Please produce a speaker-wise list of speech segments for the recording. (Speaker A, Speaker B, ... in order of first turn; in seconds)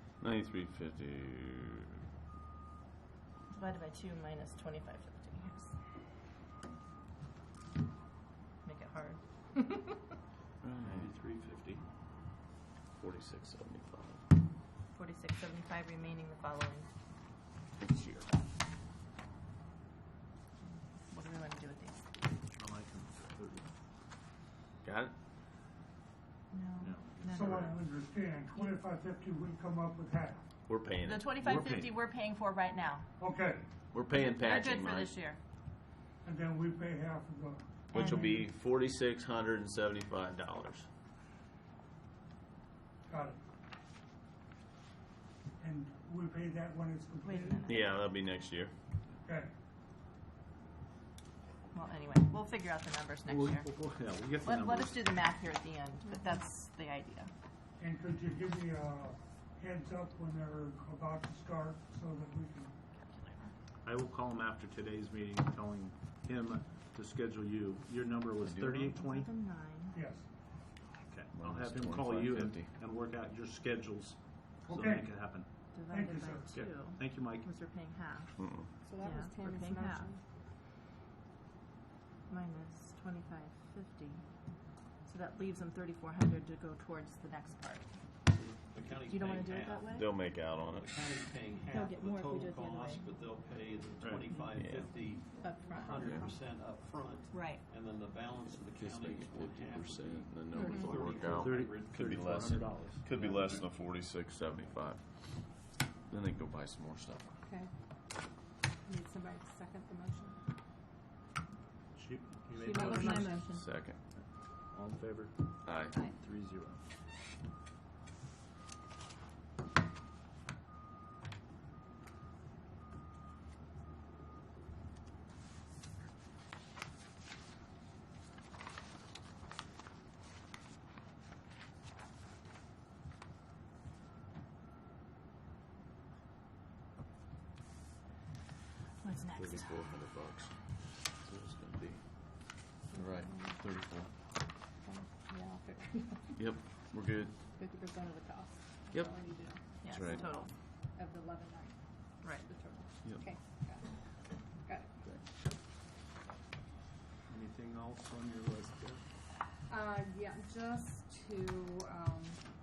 Speaker A: 0.2-1.9, 10.6-11.1, 13.0-14.2, 17.8-18.3, 24.8-25.1, 30.7-31.7, 33.9-35.1, 37.9-40.9, 47.6-48.7, 68.4-68.9, 71.3-72.7, 78.4-78.7, 89.9-90.9, 94.5-94.9, 96.0-96.3, 98.5-107.3, 113.0-114.0, 115.6-116.0, 139.3-144.1, 146.3-147.3, 148.9-150.3
Speaker B: 3.5-5.7, 8.6-9.2, 14.9-16.9, 21.0-22.1, 26.5-27.8, 31.0-33.1, 34.1-35.4, 37.9-38.4, 47.2-47.9, 51.7-53.7, 54.4-57.3, 63.0-63.5, 68.9-70.0, 75.7-78.4, 79.0-80.1, 82.3-84.2, 85.0-87.9, 89.0-90.2, 91.7-93.1, 95.4-96.2, 97.3-97.6, 112.7-113.7, 139.0-139.7, 149.8-150.5, 152.2-152.5
Speaker C: 10.8-11.8, 22.6-23.7, 26.8-27.7, 31.4-31.9, 53.2-55.2, 63.8-69.4, 70.9-75.5, 76.5-77.5, 94.0-94.4, 101.3-103.6, 111.9-113.3, 114.2-116.8, 157.3-159.0
Speaker D: 27.2-30.4, 33.2-33.6, 36.2-38.4, 43.1-43.4, 45.6-47.8, 49.2-49.5, 57.8-62.7, 69.9-70.2, 74.7-75.2, 75.9-76.5
Speaker E: 78.8-80.2, 100.5-100.9, 107.4-107.7, 108.8-110.4, 112.5-113.5, 142.9-143.6, 144.8-146.4, 147.5-155.0, 159.7-162.4
Speaker F: 88.2-102.5